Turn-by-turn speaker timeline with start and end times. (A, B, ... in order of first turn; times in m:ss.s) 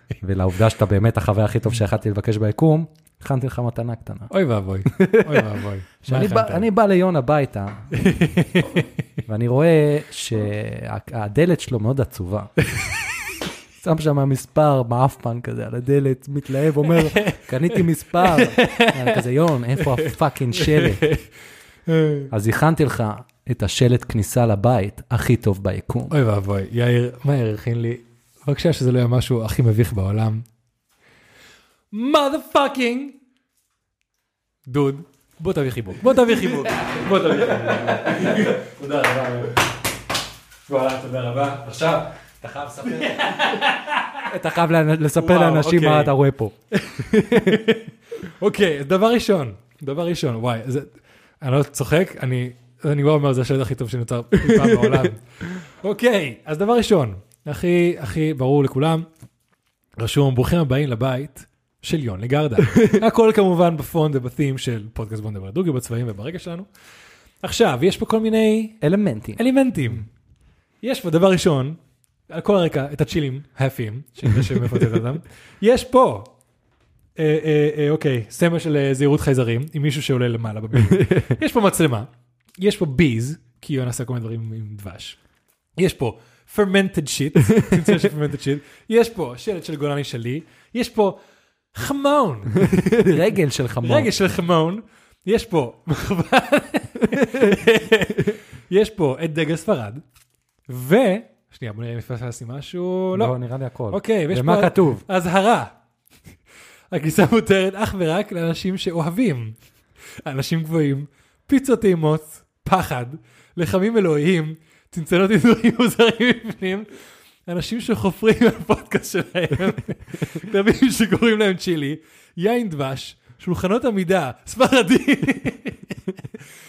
0:00.2-0:04.3 A
0:04.3-0:06.7 B
0:04.8-0:07.9 A
0:07.9-0:08.9 B
0:09.2-0:12.5 A
0:13.8-0:21.1 A
0:16.8-0:19.2 B
0:19.8-0:21.2 B
0:21.9-0:22.3 B
0:22.3-0:26.1 A
0:26.1-0:30.4 B
0:31.9-0:33.2 B
0:34.7-0:39.6 B
0:36.3-0:38.5 A
0:40.7-0:44.3 B
0:42.7-0:43.5 A
0:44.3-0:47.7 A
0:45.2-0:46.1 B
0:46.7-0:59.0 B
0:54.4-0:55.1 A
1:00.0-1:06.7 B
1:02.7-1:02.9 A
1:07.4-1:08.8 B
1:08.8-1:09.4 A
1:09.4-1:10.1 B
1:10.8-1:11.8 B
1:12.3-1:16.3 B
1:14.3-1:14.8 A
1:17.2-1:22.1 B
1:20.8-1:21.4 A
1:22.6-1:25.2 B
1:25.8-1:31.2 B
1:27.6-1:27.9 A
1:31.7-1:33.1 B
1:32.6-1:34.1 A
1:33.8-1:40.0 B
1:37.1-1:37.5 A
1:40.7-1:43.3 B
1:43.1-1:45.0 A
1:43.9-1:45.7 B
1:46.9-1:49.6 B
1:50.2-1:56.9 B
1:57.4-2:06.2 B